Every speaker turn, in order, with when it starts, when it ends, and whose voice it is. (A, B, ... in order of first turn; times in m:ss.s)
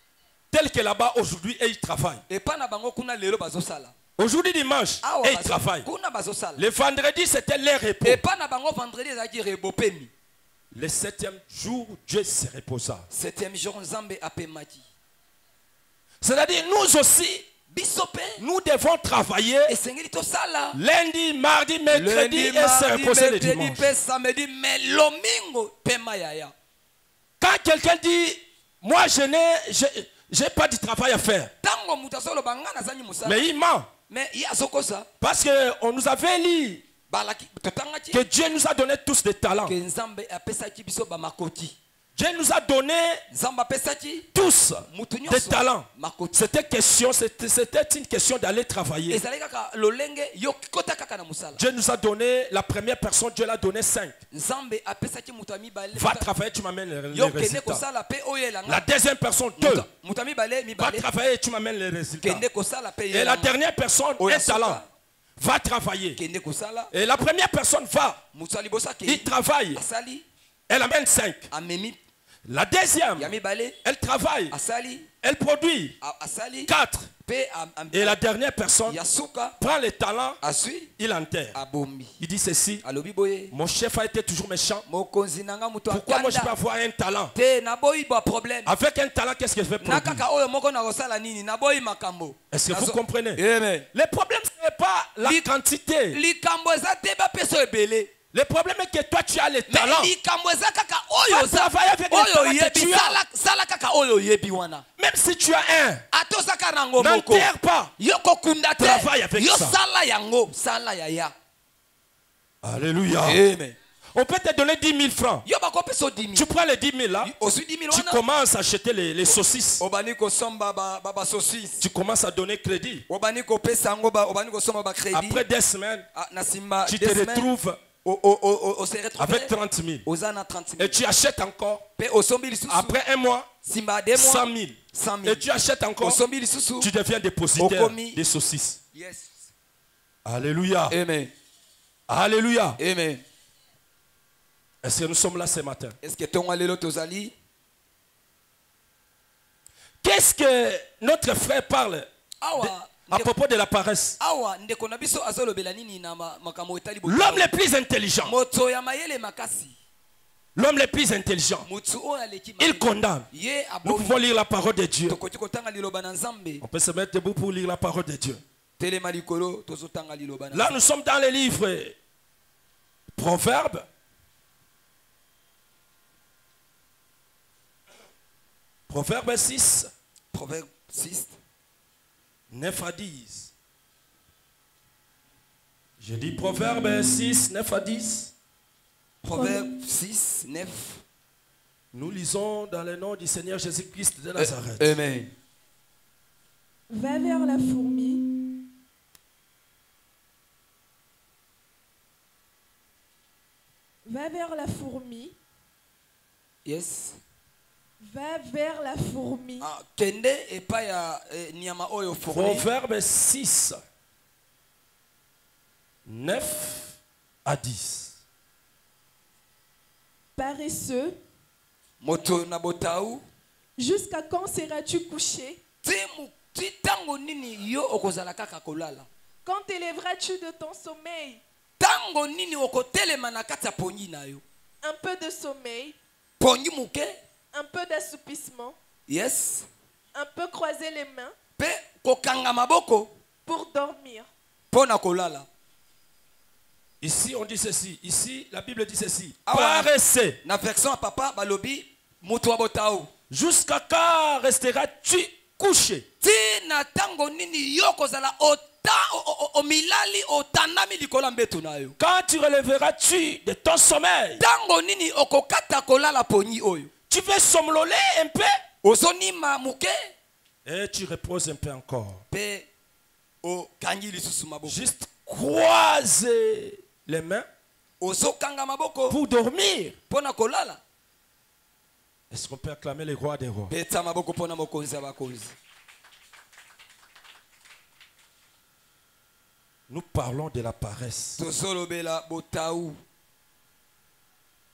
0:00.5-0:02.2 A
0:02.3-0:03.9 B
0:04.2-0:05.9 A
0:05.0-0:06.6 B
0:06.6-0:08.2 A
0:08.0-0:10.1 B
0:10.7-0:13.0 A
0:13.1-0:14.8 B
0:16.2-0:17.4 A
0:17.7-0:18.4 B
0:18.4-0:19.7 A
0:19.7-0:20.8 B
0:20.7-0:23.9 A
0:21.9-0:26.5 B
0:27.4-0:31.5 A
0:31.6-0:33.4 B
0:33.2-0:33.9 A
0:34.1-0:35.1 B
0:35.2-0:36.8 A
0:37.1-0:38.2 B
0:38.1-0:39.8 A
0:39.6-0:41.8 B
0:42.2-0:43.2 A
0:43.3-0:44.3 B
0:44.3-0:49.2 A
0:44.9-0:46.5 B
0:49.1-0:51.6 B
0:51.6-0:54.2 A
0:54.3-0:56.3 B
0:55.9-0:57.8 A
0:57.1-0:58.8 B
0:58.7-0:59.9 A
0:59.6-1:01.1 B
1:00.8-1:02.4 A
1:02.2-1:03.5 B
1:03.1-1:04.8 A
1:04.2-1:04.8 B
1:05.4-1:06.2 A
1:06.2-1:06.9 B
1:06.9-1:08.2 A
1:08.3-1:10.2 B
1:09.0-1:09.8 A
1:10.7-1:11.5 A
1:11.5-1:12.0 B
1:12.5-1:13.3 A
1:13.2-1:13.8 B
1:13.8-1:14.5 A
1:14.5-1:15.1 B
1:15.2-1:16.0 A
1:16.0-1:16.7 B
1:16.6-1:17.1 A
1:17.2-1:18.2 B
1:17.9-1:19.0 A
1:18.8-1:19.6 B
1:19.6-1:20.4 A
1:20.4-1:20.9 B
1:21.0-1:21.6 A
1:21.5-1:22.2 B
1:22.2-1:22.8 A
1:22.8-1:23.5 B
1:23.5-1:24.8 A
1:24.9-1:26.5 B
1:25.9-1:27.3 A
1:27.3-1:28.7 B
1:28.6-1:30.2 A
1:29.8-1:33.9 B
1:32.5-1:33.4 A
1:33.9-1:36.2 A
1:35.2-1:35.5 B
1:36.1-1:38.1 B
1:38.3-1:40.1 A
1:39.7-1:44.8 B
1:41.2-1:43.2 A
1:45.0-1:46.0 A
1:46.1-1:51.3 B
1:47.0-1:47.9 A
1:48.8-1:49.8 A
1:52.6-1:53.4 A
1:53.2-1:53.8 B
1:54.1-1:55.4 A
1:55.4-1:56.5 B
1:56.3-1:57.3 A
1:57.2-1:58.2 B
1:57.9-1:59.8 A
1:59.3-2:01.8 B
2:01.8-2:03.0 A
2:03.1-2:05.4 B
2:05.1-2:06.0 A
2:06.1-2:07.5 B
2:06.8-2:07.8 A
2:08.0-2:09.5 B
2:09.2-2:10.0 A
2:10.0-2:11.0 B
2:10.8-2:11.8 A
2:12.0-2:13.0 B
2:12.7-2:13.5 A
2:13.6-2:15.5 B
2:14.1-2:16.2 A
2:16.0-2:16.9 B
2:16.8-2:18.8 A
2:17.6-2:18.2 B
2:18.9-2:19.5 B
2:20.2-2:21.0 A
2:20.9-2:21.3 B
2:22.1-2:22.8 A
2:22.8-2:23.2 B
2:24.8-2:26.0 A
2:26.0-2:27.3 B
2:30.0-2:34.2 A
2:32.4-2:33.3 B
2:34.2-2:37.5 B
2:37.0-2:38.3 A
2:38.2-2:39.8 B
2:40.5-2:41.7 A
2:41.6-2:44.2 B
2:42.6-2:43.2 A
2:43.8-2:45.2 A
2:45.1-2:46.6 B
2:46.6-2:48.4 A
2:48.8-2:50.7 B
2:50.5-2:52.0 A
2:53.1-2:53.8 A
2:58.9-2:59.9 A
3:00.3-3:01.4 B
3:02.5-3:03.5 A
3:06.0-3:08.3 A
3:09.2-3:11.0 B
3:09.3-3:09.6 C
3:11.9-3:14.8 A
3:14.4-3:15.3 B
3:16.9-3:18.3 C
3:24.0-3:25.4 C
3:26.6-3:27.2 B
3:28.0-3:29.7 C
3:29.6-3:32.7 B
3:32.3-3:33.8 A
3:36.0-3:38.2 A
3:40.4-3:41.2 C
3:42.0-3:43.2 B
3:43.8-3:45.6 C
3:45.8-3:49.1 B
3:49.4-3:51.4 C
3:51.8-3:54.4 B
3:54.8-3:56.0 C
3:56.4-3:57.2 B
3:57.5-3:58.8 C
3:59.1-3:59.7 B
4:00.1-4:01.3 C
4:01.6-4:03.1 B
4:03.4-4:04.3 C
4:04.7-4:05.5 B
4:07.0-4:10.4 A
4:09.4-4:09.9 B
4:10.4-4:13.1 B
4:13.3-4:16.0 A
4:16.2-4:22.0 B
4:22.0-4:24.4 A
4:24.4-4:26.9 B
4:27.1-4:28.6 A
4:28.8-4:30.1 B
4:30.6-4:32.2 A
4:32.3-4:32.7 B
4:33.4-4:34.8 B
4:34.6-4:37.4 A
4:38.0-4:39.2 B
4:39.1-4:39.9 A
4:40.1-4:40.8 B
4:42.3-4:43.7 A
4:43.7-4:45.5 B
4:49.9-4:51.4 A
4:51.4-4:53.0 B